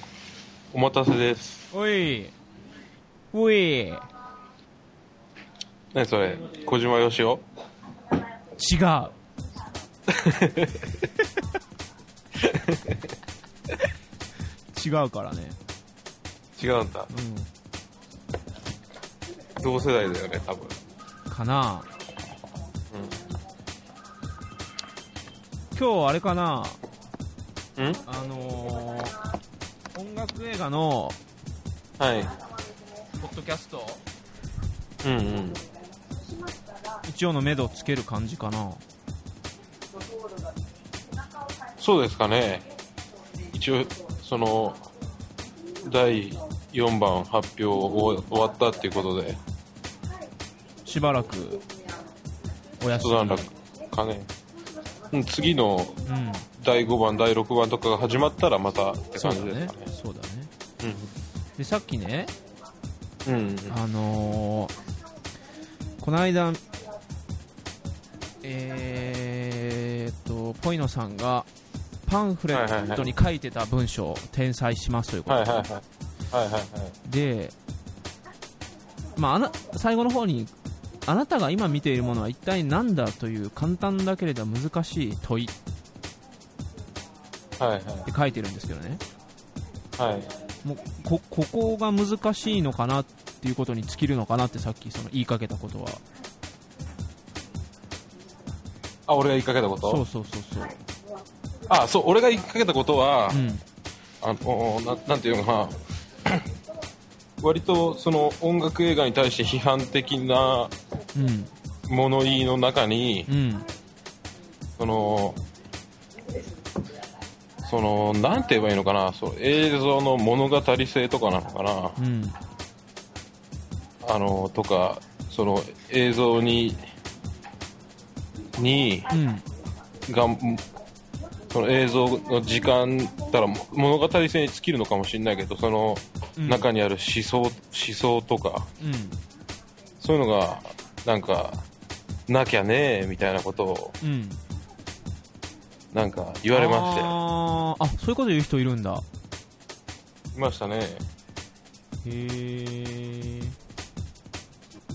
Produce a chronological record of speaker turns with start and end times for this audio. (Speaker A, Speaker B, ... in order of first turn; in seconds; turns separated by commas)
Speaker A: 0.7-1.6, Speaker B: 1.7-2.3, Speaker B: 3.3-4.1, Speaker A: 5.9-7.4, Speaker B: 8.6-9.1, Speaker A: 10.1-11.0, Speaker A: 12.4-13.1, Speaker B: 14.7-15.6, Speaker A: 16.6-17.1, Speaker B: 17.1-17.5, Speaker A: 19.6-20.8, Speaker B: 21.3-21.9, Speaker A: 22.9-23.2, Speaker B: 25.8-26.8, Speaker B: 28.1-29.1, Speaker B: 29.9-31.2, Speaker A: 32.0-32.3, Speaker B: 33.2-34.0, Speaker A: 35.0-35.6, Speaker B: 37.0-38.8, Speaker A: 41.8-42.7, Speaker A: 43.5-44.9, Speaker A: 45.8-49.4, Speaker B: 50.9-51.6, Speaker B: 52.8-53.5, Speaker A: 52.9-54.3, Speaker A: 55.1-56.0, Speaker B: 56.1-56.5, Speaker A: 56.6-59.9, Speaker B: 59.1-60.5, Speaker A: 60.8-61.1, Speaker B: 61.6-62.3, Speaker A: 63.2-63.8, Speaker B: 63.7-64.7, Speaker B: 66.0-66.6, Speaker B: 68.4-71.5, Speaker B: 72.1-75.5, Speaker A: 72.5-73.1, Speaker A: 75.3-76.9, Speaker B: 77.0-77.5, Speaker B: 79.2-80.5, Speaker B: 81.1-85.5, Speaker A: 87.6-88.1, Speaker B: 88.1-89.0, Speaker A: 90.0-90.3, Speaker B: 90.6-96.0, Speaker A: 99.1-100.0, Speaker B: 99.8-100.8, Speaker A: 101.7-103.4, Speaker B: 103.3-103.6, Speaker A: 104.2-106.5, Speaker A: 107.4-110.7, Speaker B: 111.2-111.5, Speaker A: 111.9-113.3, Speaker B: 113.3-113.7, Speaker A: 114.8-115.4, Speaker A: 117.6-122.0, Speaker B: 122.0-122.4, Speaker A: 124.0-126.9, Speaker A: 128.6-129.1, Speaker B: 129.1-129.4, Speaker A: 130.1-130.6, Speaker A: 131.5-138.7, Speaker B: 136.4-136.7, Speaker B: 138.8-139.2, Speaker A: 140.0-141.7, Speaker A: 142.3-144.0, Speaker B: 144.0-144.4, Speaker A: 145.9-147.2, Speaker B: 146.5-149.0, Speaker A: 150.3-151.1, Speaker B: 152.1-153.6